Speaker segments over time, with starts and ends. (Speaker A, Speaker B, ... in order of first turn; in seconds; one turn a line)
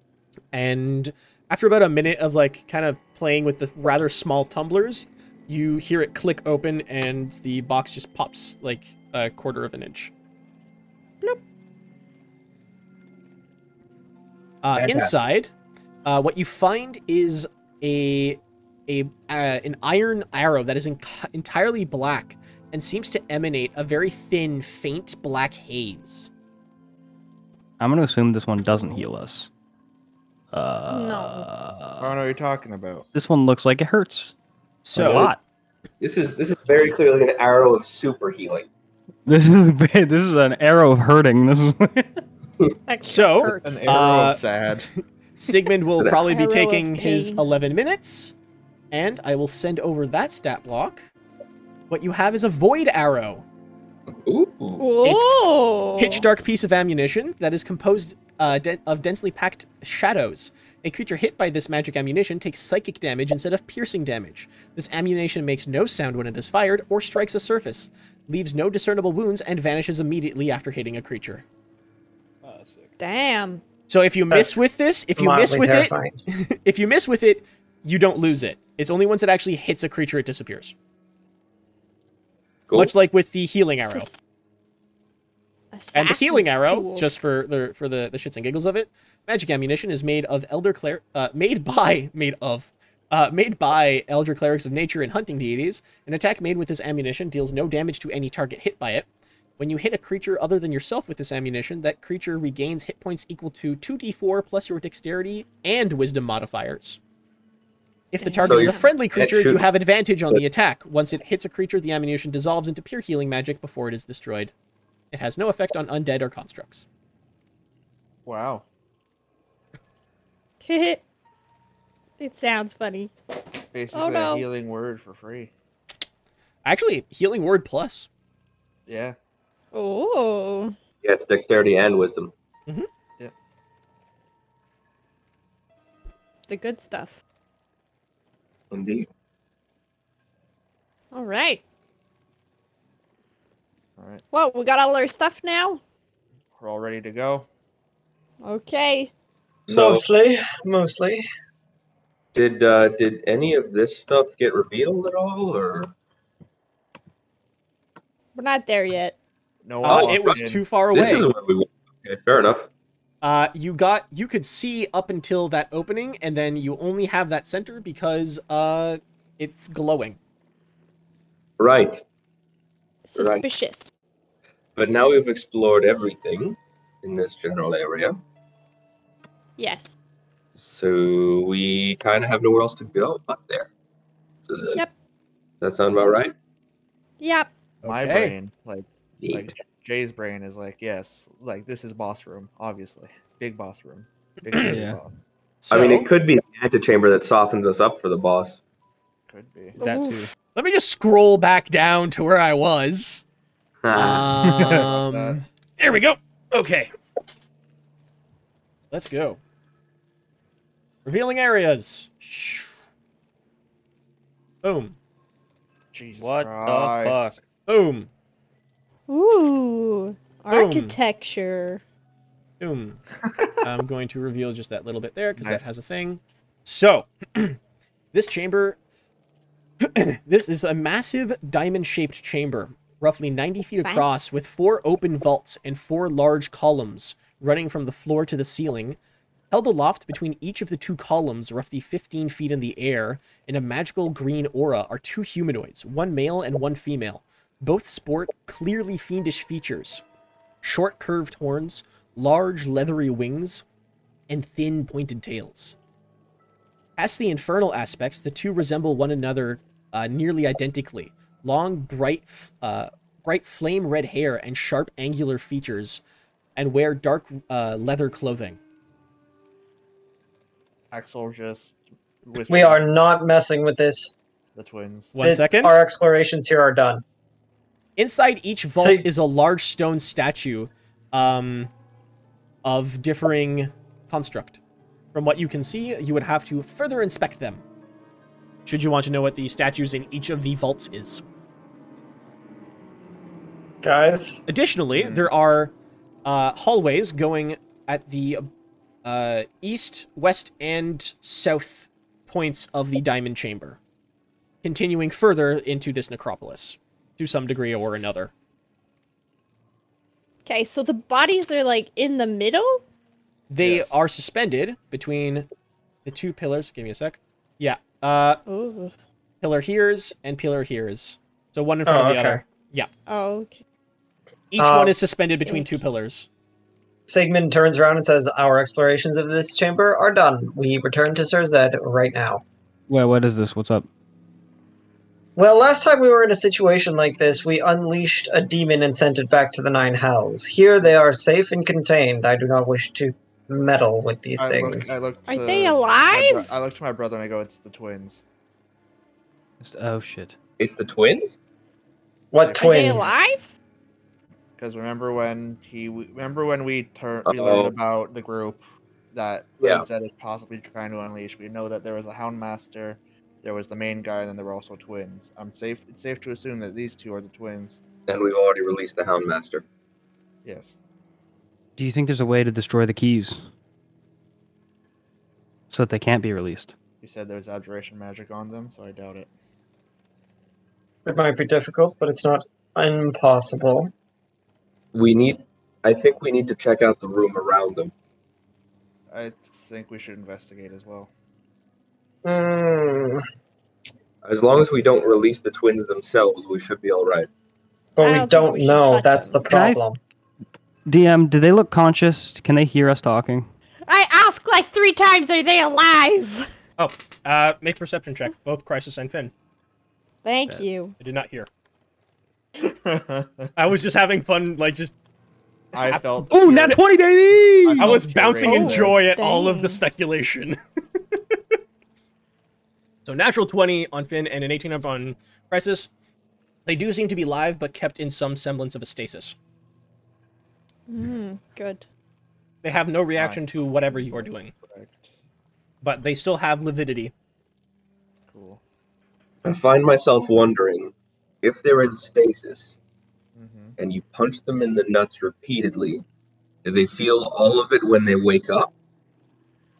Speaker A: 0.5-10.1
Speaker A: 14.6-15.5
Speaker B: 14.8-15.2
Speaker A: 16.0-26.3
Speaker C: 27.8-29.5
Speaker C: 30.5-32.1
Speaker D: 30.9-31.5
Speaker E: 32.0-33.0
Speaker C: 33.1-34.3
Speaker A: 34.8-35.3
Speaker C: 34.9-35.4
Speaker B: 36.0-38.7
Speaker C: 39.2-42.2
Speaker D: 42.9-43.9
Speaker A: 43.0-44.4
Speaker E: 43.5-44.9
Speaker A: 45.4-48.3
Speaker D: 46.1-47.4
Speaker A: 48.9-51.1
Speaker A: 51.9-53.4
Speaker B: 54.2-54.8
Speaker D: 54.8-56.2
Speaker A: 56.0-71.4
Speaker C: 72.4-72.9
Speaker D: 73.0-73.6
Speaker A: 73.9-80.7
Speaker F: 74.3-76.2
Speaker B: 82.7-82.9
Speaker A: 82.7-84.1
Speaker D: 83.8-84.1
Speaker D: 85.7-87.2
Speaker A: 85.9-99.1
Speaker A: 99.6-107.0
Speaker A: 108.1-114.5
Speaker D: 108.2-108.9
Speaker B: 108.4-109.7
Speaker A: 115.1-116.8
Speaker E: 118.2-118.6
Speaker D: 120.6-121.0
Speaker D: 122.2-123.1
Speaker E: 123.7-125.5
Speaker D: 123.9-124.5
Speaker A: 126.6-128.1
Speaker E: 128.9-129.2
Speaker D: 129.7-130.7
Speaker B: 131.0-132.3
Speaker D: 136.5-137.2
Speaker B: 138.7-139.1
Speaker D: 141.1-141.6
Speaker E: 144.0-144.2
Speaker D: 144.3-145.8
Speaker E: 146.5-147.5
Speaker D: 148.4-149.1
Speaker B: 149.7-150.0
Speaker F: 149.7-151.2
Speaker B: 152.3-155.9
Speaker D: 158.3-159.2
Speaker E: 159.6-160.6
Speaker A: 159.8-161.3
Speaker B: 159.8-162.7
Speaker A: 163.2-170.2
Speaker B: 171.6-172.0
Speaker D: 173.1-173.9
Speaker B: 173.1-173.4
Speaker B: 174.8-178.2
Speaker D: 179.6-179.9
Speaker B: 180.5-183.7
Speaker B: 184.5-184.8
Speaker B: 185.6-186.3
Speaker D: 187.2-187.5
Speaker A: 187.8-188.3
Speaker E: 187.8-195.2
Speaker B: 189.2-189.5
Speaker C: 194.6-195.0
Speaker A: 195.6-196.1
Speaker B: 195.7-198.6
Speaker E: 199.3-199.8
Speaker C: 199.8-200.3
Speaker D: 199.8-200.3
Speaker A: 200.5-203.2
Speaker B: 203.8-204.4
Speaker A: 203.9-206.9
Speaker C: 204.5-204.8
Speaker E: 204.5-205.4
Speaker A: 208.9-209.4
Speaker A: 211.0-212.7
Speaker A: 214.6-214.9
Speaker E: 215.9-217.4
Speaker C: 216.2-217.3
Speaker A: 217.7-218.1
Speaker D: 219.1-221.8
Speaker A: 220.5-220.9
Speaker A: 222.6-223.0
Speaker E: 223.2-223.6
Speaker A: 223.6-227.6
Speaker E: 225.4-225.7
Speaker A: 228.1-228.8
Speaker A: 229.8-239.0
Speaker D: 233.8-234.2
Speaker A: 239.5-250.0
Speaker A: 250.6-253.6
Speaker A: 254.3-255.8
Speaker A: 257.0-266.0
Speaker A: 266.6-268.6
Speaker E: 270.9-272.8
Speaker F: 272.5-274.1
Speaker E: 274.5-275.1
Speaker A: 275.1-275.7
Speaker F: 275.2-277.0
Speaker A: 278.0-281.7
Speaker F: 278.8-279.1
Speaker A: 282.6-284.6
Speaker A: 285.1-287.6
Speaker A: 288.6-291.2
Speaker F: 293.8-294.4
Speaker A: 294.5-295.7
Speaker E: 295.0-295.2
Speaker A: 296.2-298.5
Speaker A: 299.0-303.8
Speaker A: 304.6-308.3
Speaker D: 310.4-312.8
Speaker A: 313.5-315.5
Speaker E: 313.6-313.9
Speaker A: 316.0-318.4
Speaker D: 318.4-318.9
Speaker A: 319.4-322.9
Speaker F: 321.9-322.4
Speaker D: 323.1-323.6
Speaker A: 324.5-326.3
Speaker F: 324.6-324.9
Speaker D: 325.4-325.8
Speaker F: 327.1-332.4
Speaker C: 332.9-333.9
Speaker F: 335.4-345.0
Speaker E: 344.4-348.2
Speaker D: 345.3-346.5
Speaker C: 349.6-350.4
Speaker B: 350.6-351.4
Speaker F: 352.3-353.1
Speaker D: 352.5-353.5
Speaker E: 354.6-367.8
Speaker B: 357.2-357.7
Speaker B: 359.6-359.9
Speaker B: 368.1-369.6
Speaker E: 370.4-370.7
Speaker C: 371.8-373.4
Speaker C: 375.7-376.7
Speaker E: 377.0-379.3
Speaker F: 381.1-383.9
Speaker B: 384.9-387.9
Speaker E: 389.1-391.1
Speaker F: 392.2-393.2
Speaker B: 394.2-397.3
Speaker F: 398.0-400.0
Speaker D: 398.0-399.5
Speaker C: 399.5-399.8
Speaker C: 400.9-403.5
Speaker D: 403.9-406.5
Speaker A: 406.8-409.3
Speaker D: 410.2-410.9
Speaker A: 411.0-411.5
Speaker E: 412.6-413.5
Speaker A: 413.6-414.9
Speaker E: 415.7-416.8
Speaker A: 415.8-416.8
Speaker C: 416.3-418.0
Speaker E: 417.6-419.0
Speaker A: 417.7-420.6
Speaker D: 418.4-419.8
Speaker A: 423.0-425.9
Speaker A: 426.6-429.4
Speaker D: 430.9-431.8
Speaker A: 432.6-434.5
Speaker E: 433.1-435.1
Speaker A: 435.8-437.1
Speaker E: 438.3-438.6
Speaker B: 439.4-442.8
Speaker E: 443.3-443.8
Speaker B: 443.8-446.0
Speaker B: 446.6-448.7